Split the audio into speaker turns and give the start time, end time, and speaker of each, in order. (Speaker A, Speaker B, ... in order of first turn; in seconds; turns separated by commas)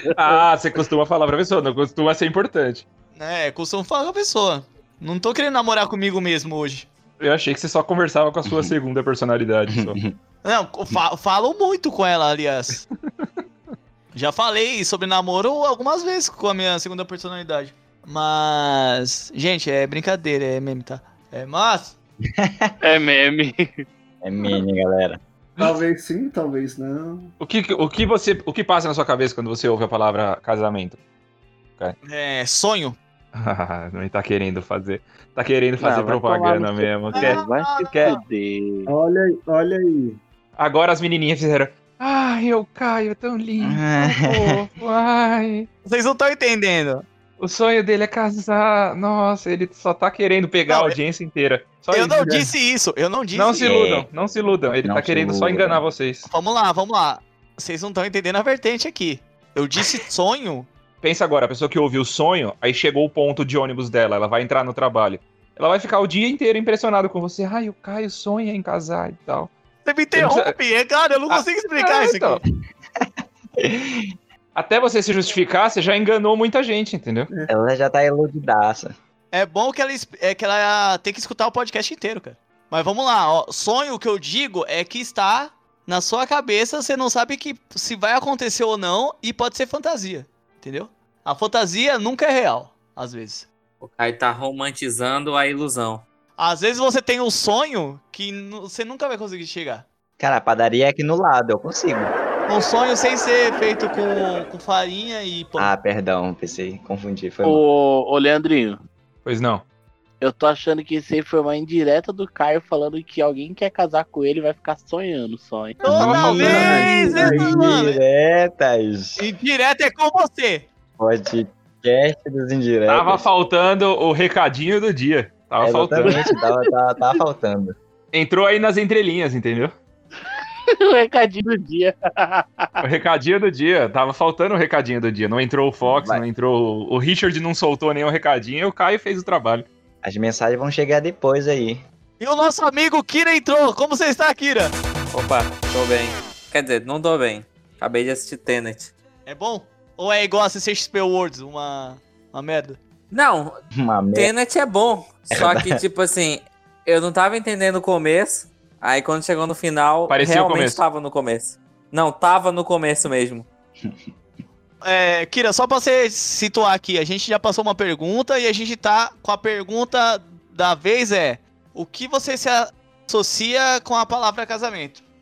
Speaker A: 0.1-2.9, Speaker B: 3.1-6.9, Speaker A: 7.2-10.0, Speaker C: 8.5-8.7, Speaker C: 9.7-10.2, Speaker B: 10.4-12.8, Speaker B: 14.1-22.0, Speaker C: 22.3-22.7, Speaker D: 22.8-23.9, Speaker C: 24.2-25.2, Speaker E: 25.6-27.3, Speaker A: 27.4-31.0, Speaker B: 32.0-33.0, Speaker A: 33.4-38.2, Speaker D: 35.8-38.9, Speaker B: 37.1-38.2, Speaker E: 38.9-40.2, Speaker A: 40.6-45.7, Speaker C: 43.6-44.6, Speaker B: 45.9-47.1, Speaker A: 47.4-52.3, Speaker B: 50.7-51.0, Speaker B: 51.9-53.6, Speaker A: 53.4-56.3, Speaker C: 53.6-54.1, Speaker C: 54.8-55.8, Speaker B: 56.3-60.7, Speaker A: 61.0-69.5, Speaker B: 69.8-72.4, Speaker A: 70.1-70.5, Speaker A: 71.3-72.4, Speaker C: 73.6-74.1, Speaker A: 74.5-77.3, Speaker C: 77.5-78.9, Speaker B: 79.3-93.5, Speaker F: 93.8-96.0, Speaker B: 96.4-99.9, Speaker C: 100.2-102.1, Speaker B: 102.5-105.7, Speaker C: 105.6-107.6, Speaker D: 107.4-108.8, Speaker A: 109.2-109.6, Speaker D: 110.2-115.8, Speaker B: 115.8-118.0, Speaker A: 115.9-116.9, Speaker C: 115.9-119.2, Speaker E: 116.4-117.6, Speaker B: 119.2-120.7, Speaker C: 121.0-123.3, Speaker A: 122.9-126.2, Speaker C: 125.6-127.8, Speaker D: 126.0-126.7, Speaker A: 128.1-129.8, Speaker D: 130.8-132.8, Speaker A: 132.8-139.7, Speaker C: 135.8-136.2, Speaker C: 140.0-141.8, Speaker B: 142.2-144.8, Speaker F: 145.1-148.9, Speaker B: 149.3-152.8, Speaker F: 153.1-153.6, Speaker C: 153.8-154.3, Speaker F: 154.1-163.5, Speaker C: 155.3-155.8, Speaker A: 160.1-160.8, Speaker B: 164.8-175.1